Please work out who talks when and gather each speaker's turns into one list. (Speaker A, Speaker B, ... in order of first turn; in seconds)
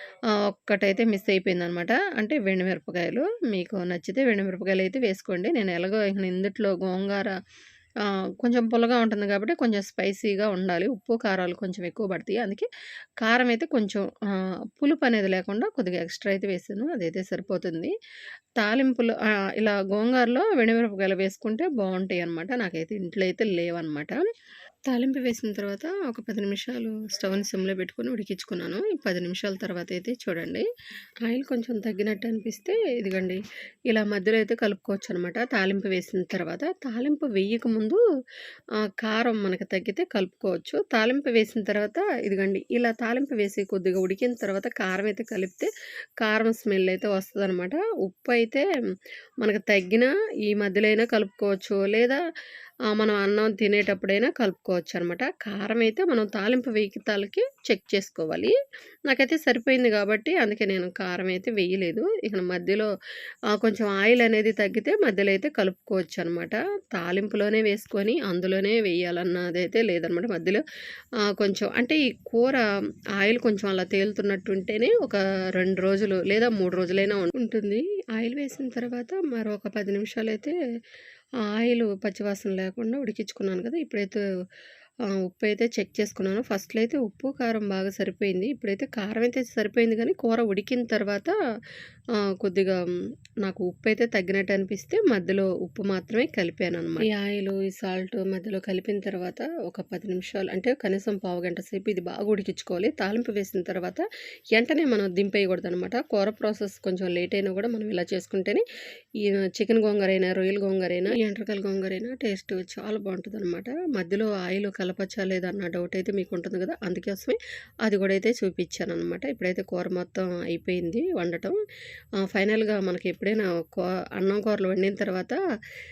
Speaker A: 0.5-7.3, 8.4-12.7, 13.2-14.1, 14.8-17.9, 18.6-24.2, 24.9-30.6, 31.2-38.0, 39.0-45.7, 46.2-48.6, 49.4-52.2, 52.9-58.5, 59.1-62.9, 63.5-70.6, 71.2-72.7, 73.2-80.5, 81.5-84.2, 85.1-91.3, 92.2-92.8, 93.4-108.6, 109.2-121.5, 122.2-125.4